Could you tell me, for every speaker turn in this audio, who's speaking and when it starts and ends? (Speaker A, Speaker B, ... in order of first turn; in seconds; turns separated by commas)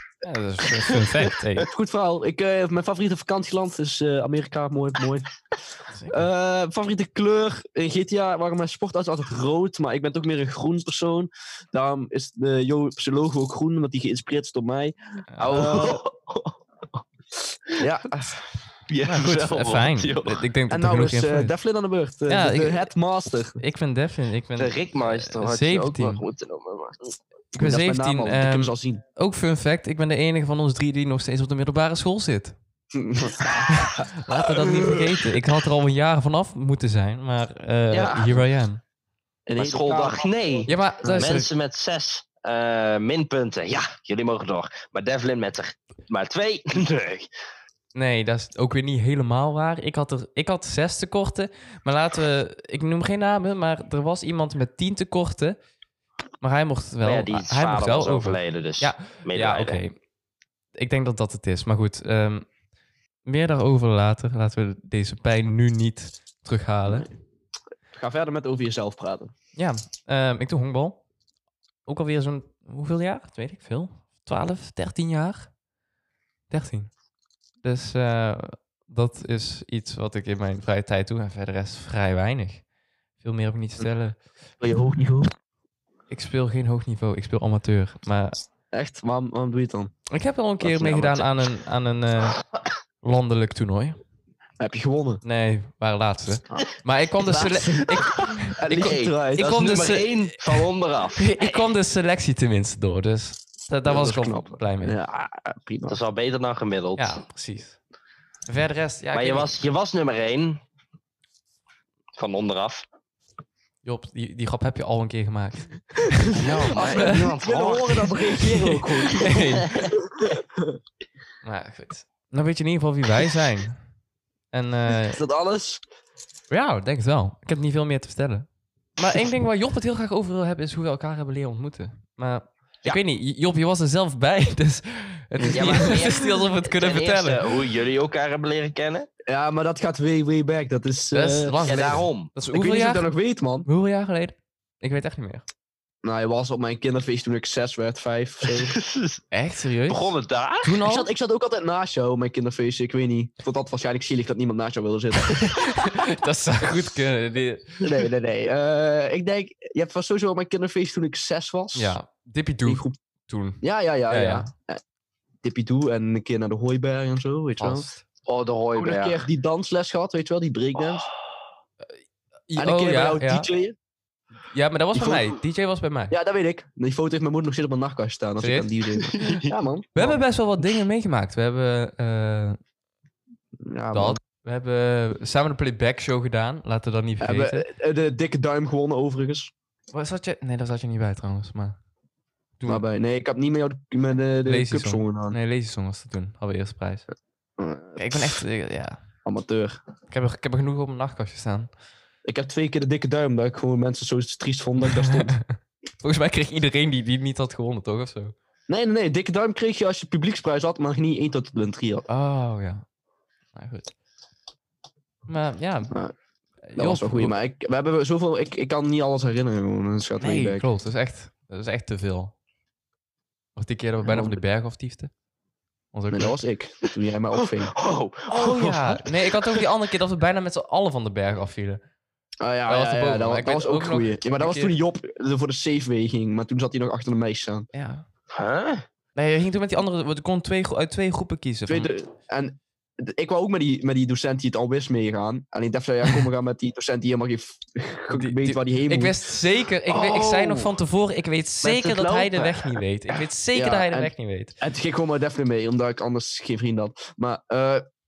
Speaker A: 0.2-1.7, Speaker B: 1.6-5.3, Speaker A: 5.9-6.3, Speaker B: 6.1-16.0, Speaker A: 15.3-15.9, Speaker C: 15.5-16.5, Speaker B: 17.8-18.4, Speaker C: 18.9-20.4, Speaker A: 19.0-21.5, Speaker B: 20.7-23.6, Speaker A: 22.3-22.9, Speaker A: 23.6-26.2, Speaker C: 24.6-27.2, Speaker A: 27.5-32.5, Speaker B: 27.6-29.0, Speaker B: 32.9-34.3, Speaker A: 33.7-38.8, Speaker C: 37.9-38.4, Speaker B: 39.5-40.3, Speaker C: 39.6-47.3, Speaker A: 40.7-41.5, Speaker A: 47.9-55.6, Speaker A: 56.4-60.0, Speaker C: 57.0-59.8, Speaker A: 60.8-62.5, Speaker A: 63.2-67.1, Speaker B: 67.9-69.3, Speaker A: 69.5-71.0, Speaker A: 71.8-75.5, Speaker A: 76.5-76.9, Speaker A: 77.6-82.7, Speaker A: 83.2-84.2, Speaker B: 84.6-85.3, Speaker A: 86.1-88.3, Speaker B: 88.7-89.9, Speaker A: 90.1-92.4, Speaker C: 90.6-91.3, Speaker A: 93.0-94.0, Speaker B: 94.6-95.2, Speaker A: 95.2-100.6, Speaker B: 97.2-98.0, Speaker B: 98.5-99.5, Speaker C: 98.7-101.6, Speaker A: 101.2-105.0, Speaker B: 103.8-106.0, Speaker C: 105.9-107.2, Speaker A: 107.0-107.8, Speaker A: 108.5-109.5, Speaker C: 109.1-110.6, Speaker C: 112.2-112.8, Speaker A: 113.8-117.1, Speaker C: 116.3-118.0, Speaker B: 116.4-120.7, Speaker A: 118.4-119.9, Speaker A: 121.4-123.8, Speaker A: 124.5-125.2, Speaker B: 125.0-125.8, Speaker A: 126.5-137.6, Speaker B: 135.4-135.9, Speaker C: 135.5-139.1, Speaker B: 139.3-143.7, Speaker A: 141.1-143.1, Speaker C: 141.6-142.3, Speaker A: 143.6-145.5, Speaker B: 146.0-148.8, Speaker C: 148.5-149.2, Speaker A: 149.3-151.1, Speaker C: 149.9-150.8, Speaker B: 150.8-155.5, Speaker A: 155.3-158.0, Speaker B: 157.8-162.0, Speaker A: 161.7-164.5, Speaker B: 162.7-163.0, Speaker B: 163.6-164.8, Speaker B: 165.4-167.9, Speaker A: 167.6-168.0, Speaker C: 168.2-169.2, Speaker B: 168.8-171.1, Speaker A: 172.5-173.5, Speaker B: 172.6-173.7, Speaker A: 174.5-176.1, Speaker B: 174.9-175.3, Speaker B: 176.1-180.2, Speaker A: 178.4-179.3, Speaker C: 179.1-179.4, Speaker A: 179.9-182.6, Speaker B: 183.6-184.2, Speaker A: 183.9-187.6, Speaker B: 187.2-189.5, Speaker A: 189.9-191.8, Speaker A: 192.6-192.8, Speaker B: 192.7-195.4, Speaker A: 194.4-197.0, Speaker B: 197.6-198.2, Speaker A: 197.9-199.0, Speaker B: 199.2-199.8, Speaker A: 200.1-201.7, Speaker B: 202.2-205.4, Speaker A: 204.9-208.3, Speaker B: 208.7-212.1, Speaker A: 212.1-212.8, Speaker A: 213.5-213.9, Speaker A: 215.3-215.9, Speaker A: 216.6-217.4, Speaker B: 216.8-220.7, Speaker A: 220.2-222.3, Speaker A: 223.6-225.1, Speaker B: 224.0-224.4, Speaker A: 225.9-226.3, Speaker B: 226.1-227.7, Speaker C: 227.4-229.6, Speaker A: 228.3-231.8, Speaker B: 232.4-237.7, Speaker A: 232.7-234.7, Speaker A: 237.7-238.0, Speaker C: 238.3-238.8, Speaker A: 239.1-241.9, Speaker B: 241.7-249.2, Speaker A: 248.1-254.5, Speaker C: 249.9-250.7, Speaker C: 251.6-252.3, Speaker B: 252.1-252.6, Speaker B: 253.5-257.8